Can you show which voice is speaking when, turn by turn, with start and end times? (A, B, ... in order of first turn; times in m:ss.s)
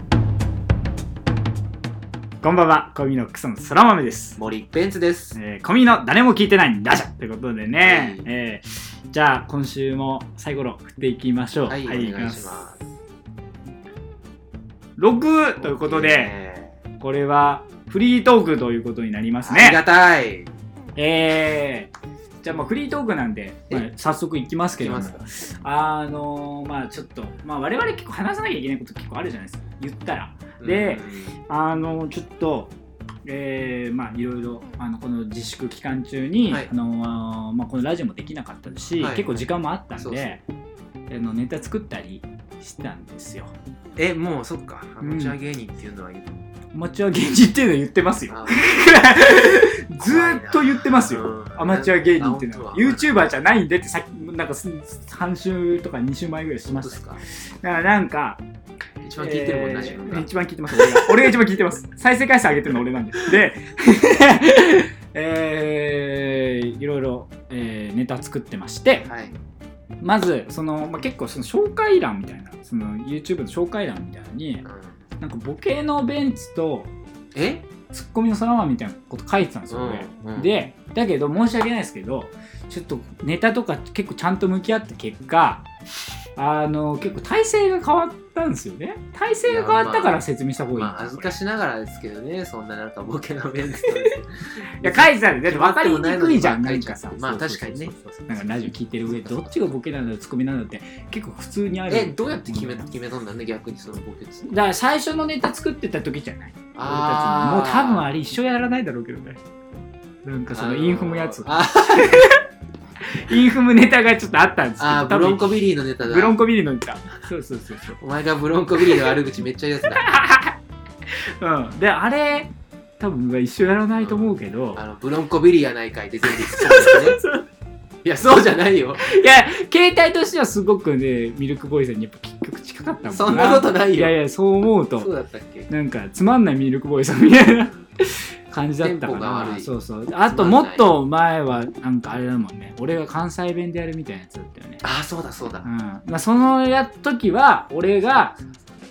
0:02.4-0:04.4 A
0:04.4-0:05.4 B
0:05.3-0:12.6 A
0:07.8-0:08.3 B
0:11.6-0:12.8 B
0:15.0-0:16.3 A
0:15.6-0:16.8 B
0:17.0-0:19.8 A
0:19.4-0:20.5 B
0:21.0-0:21.9 A
0:22.4-0:32.7 A
0:24.7-0:25.2 B
0:30.6-0:31.4 B
0:33.2-0:40.4 A
0:36.4-0:36.7 B
0:39.0-0:40.4 B
0:41.1-0:43.5 A
0:44.0-0:46.4 B
0:45.0-0:45.4 A
0:46.7-0:58.4 A
0:48.3-0:49.2 B
0:50.0-0:53.2 B
0:56.6-0:57.2 B
0:59.0-1:01.3 B
0:59.2-1:09.0 A
1:09.0-1:09.4 B
1:10.0-1:14.6 A
1:14.6-1:14.9 B
1:15.2-1:16.9 A
1:17.3-1:17.7 B
1:17.9-1:25.7 A
1:19.7-1:20.6 B
1:26.4-1:31.4 A
1:29.4-1:39.7 B
1:34.8-1:42.9 A
1:41.9-1:44.5 B
1:44.5-1:49.4 A
1:46.7-1:48.1 B
1:50.2-1:52.4 A
1:50.5-1:52.2 B
1:53.1-1:58.0 A
1:54.8-1:56.4 B
1:58.0-2:00.1 B
1:59.9-2:00.5 A
2:01.4-2:04.8 A
2:04.0-2:07.2 B
2:06.3-2:07.4 A
2:08.0-2:09.1 B
2:09.0-2:15.1 A
2:13.0-2:14.2 B
2:15.0-2:15.7 B
2:15.7-2:24.8 A
2:18.8-2:19.7 B
2:20.3-2:20.9 B
2:24.8-2:25.7 B
2:25.6-2:28.4 A